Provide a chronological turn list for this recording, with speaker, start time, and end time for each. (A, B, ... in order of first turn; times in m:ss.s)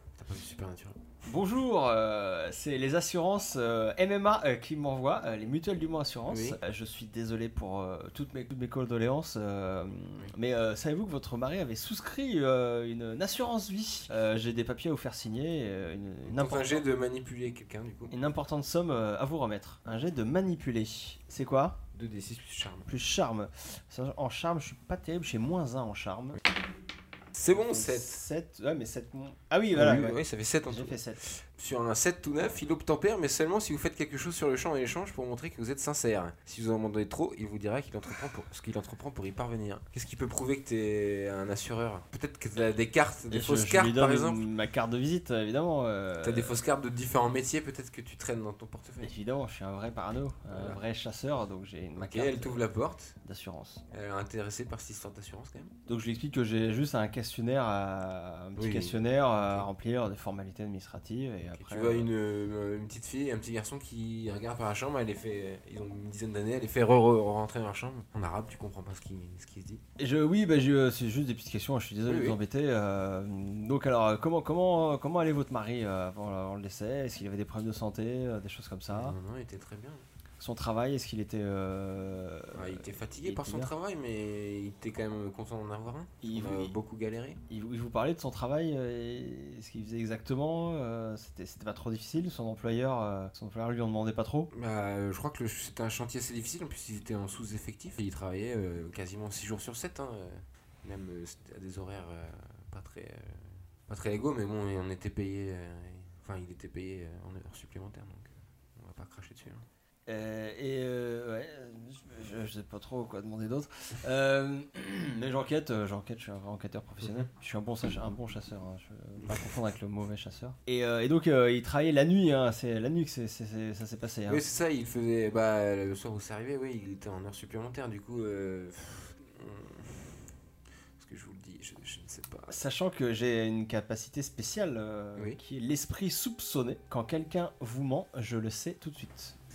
0:00.2-0:01.0 A
0:01.2-0:16.9 B
0:06.3-0:06.6 A
0:16.3-0:18.1 A
0:18.1-0:21.8 B
0:21.9-0:22.9 A
0:22.9-0:26.4 B
0:27.3-0:28.2 A
0:27.5-0:31.2 B
0:29.7-0:44.4 A
0:43.3-0:46.6 B
0:46.2-0:49.1 A
0:49.0-0:52.6 B
0:50.5-0:50.8 A
0:52.0-0:53.1 A
0:53.2-0:53.8 B
0:53.9-0:55.7 A
0:55.9-1:02.1 B
0:58.6-0:59.7 A
1:01.5-1:09.8 A
1:10.0-1:19.2 B
1:12.0-1:12.4 A
1:18.9-1:20.0 A
1:20.4-1:23.7 B
1:22.5-1:27.4 A
1:26.2-1:26.7 B
1:27.5-1:34.5 B
1:34.5-1:49.6 A
1:50.1-2:04.4 B
2:04.3-2:10.1 A
2:11.0-2:12.5 A
2:12.5-2:19.4 B